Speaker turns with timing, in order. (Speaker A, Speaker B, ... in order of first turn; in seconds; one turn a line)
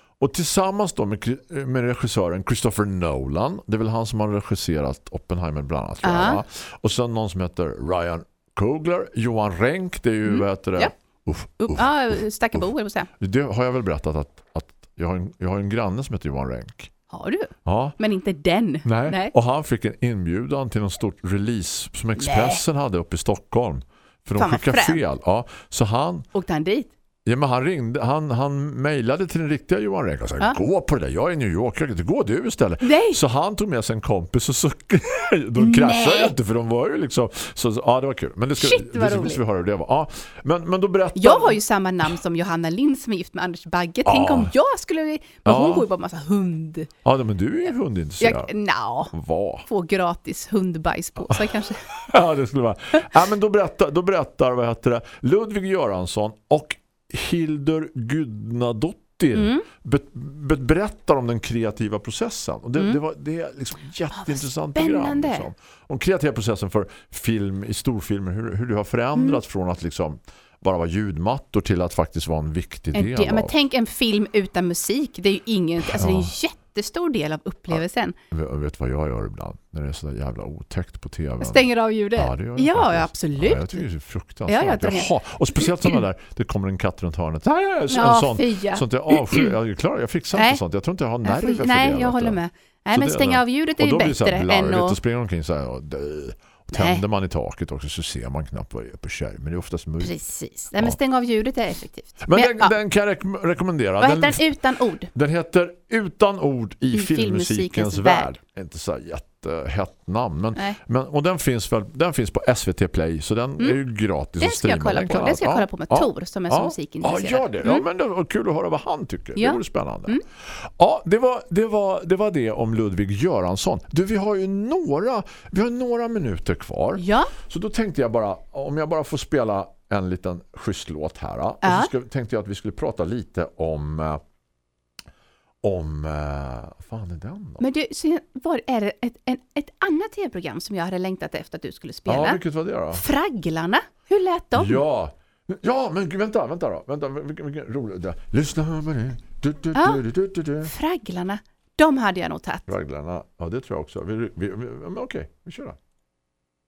Speaker A: 0.2-12.7
Speaker B: 6.0-6.4
Speaker B: 10.2-10.9
Speaker B: 11.6-13.1
Speaker A: 13.2-16.9
Speaker B: 17.1-19.3
Speaker A: 17.6-18.0
Speaker A: 18.8-26.3
Speaker B: 22.2-22.6
Speaker B: 24.4-25.0
Speaker B: 26.3-26.9
Speaker A: 27.2-41.6
Speaker B: 32.8-33.2
Speaker B: 35.6-36.3
Speaker B: 38.6-39.4
Speaker B: 41.1-46.9
Speaker A: 44.0-44.5
Speaker A: 45.4-45.9
Speaker A: 47.0-48.5
Speaker B: 48.2-49.1
Speaker A: 49.1-49.6
Speaker B: 49.7-51.8
Speaker A: 51.2-73.5
Speaker B: 59.3-59.6
Speaker B: 64.1-65.5
Speaker B: 69.1-69.4
Speaker B: 72.9-78.1
Speaker A: 75.8-76.3
Speaker A: 77.7-92.4
Speaker B: 81.4-83.8
Speaker B: 84.5-86.0
Speaker B: 87.9-89.5
Speaker B: 90.3-90.6
Speaker B: 91.2-95.0
Speaker A: 92.9-100.1
Speaker B: 96.7-97.0
Speaker B: 100.0-102.8
Speaker A: 102.2-104.5
Speaker B: 104.0-105.1
Speaker A: 105.1-134.2
Speaker B: 106.9-108.3
Speaker B: 114.4-117.8
Speaker B: 119.3-120.2
Speaker B: 127.0-127.3
Speaker B: 131.6-131.9
Speaker A: 135.6-137.6
Speaker B: 137.6-142.4
Speaker A: 142.1-143.0
Speaker B: 142.9-144.8
Speaker A: 144.5-150.7
Speaker B: 149.7-150.0
Speaker B: 150.6-152.7
Speaker A: 152.7-155.8